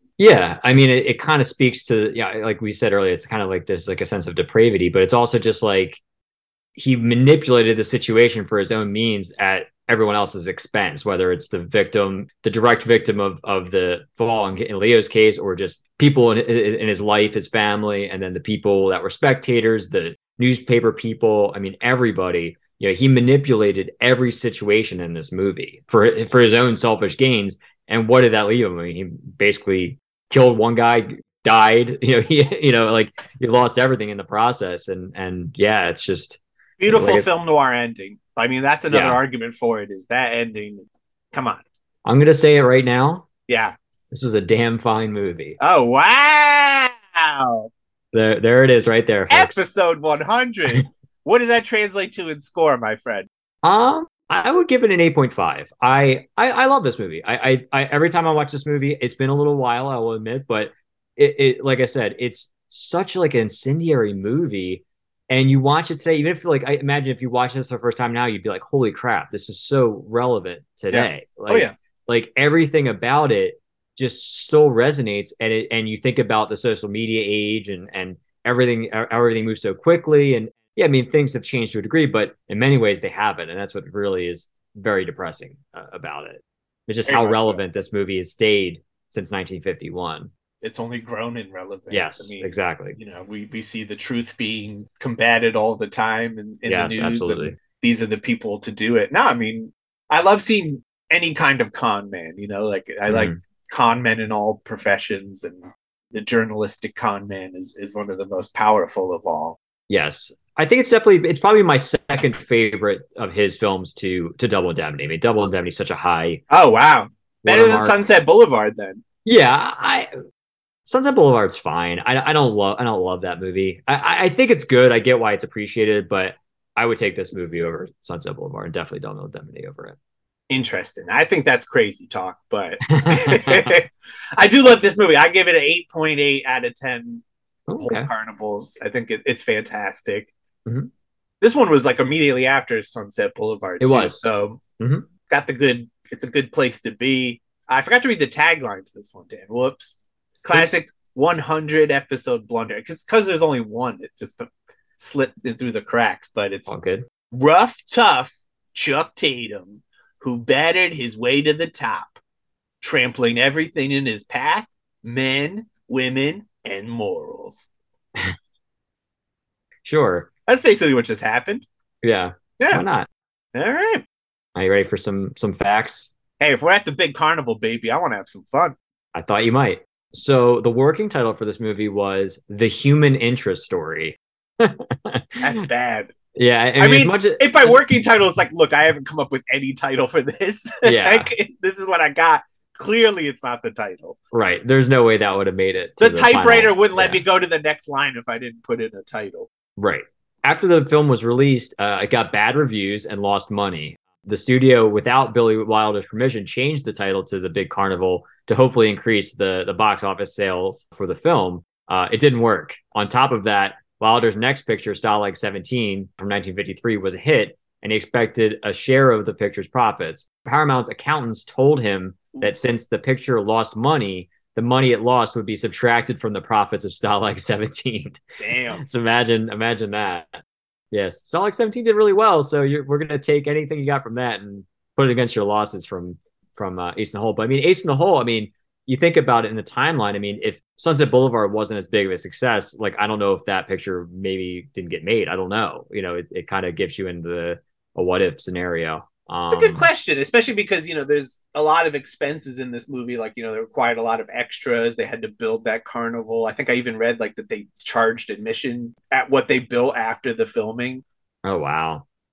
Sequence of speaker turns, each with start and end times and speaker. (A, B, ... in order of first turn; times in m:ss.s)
0:00.2-0:06.0 A
0:06.8-0:37.3 A
0:36.8-0:41.6 B
0:38.9-0:39.2 A
0:42.0-0:43.3 A
0:43.5-0:43.8 B
0:44.1-0:45.6 A
0:45.6-0:47.7 B
0:48.1-0:49.7 A
0:49.3-0:53.3 B
0:53.6-1:30.3 A
1:10.9-1:11.7 B
1:27.0-1:27.6 B
1:30.6-1:49.6 B
1:31.9-1:33.0 A
1:36.6-1:37.6 A
1:43.1-1:43.4 A
1:49.9-1:56.4 A
1:56.5-1:59.0 B
1:57.4-1:58.0 A
1:59.2-2:00.1 A
2:00.8-2:10.0 A
2:10.5-2:17.2 B
2:12.9-2:13.8 A
2:17.7-2:18.1 A
2:17.8-2:20.3 B
2:21.4-2:24.6 B
2:23.8-2:25.1 A
2:25.3-2:36.7 B
2:36.7-2:37.1 A
2:37.3-2:42.2 B
2:42.8-2:47.7 B
2:49.8-2:50.3 A
2:50.5-2:51.6 B
2:52.0-2:53.1 A
2:52.6-2:52.8 B
2:53.5-2:54.0 B
2:54.5-2:56.1 A
2:56.4-2:58.8 B
2:59.1-3:05.6 A
3:05.4-3:06.1 B
3:06.3-3:07.8 A
3:06.8-3:14.2 B
3:10.8-3:11.3 A
3:14.3-3:17.2 A
3:16.0-3:19.5 B
3:19.8-3:48.2 A
3:48.4-3:48.8 B
3:48.8-3:50.4 A
3:50.9-4:09.9 A
4:09.5-4:21.0 B
4:21.4-4:22.0 A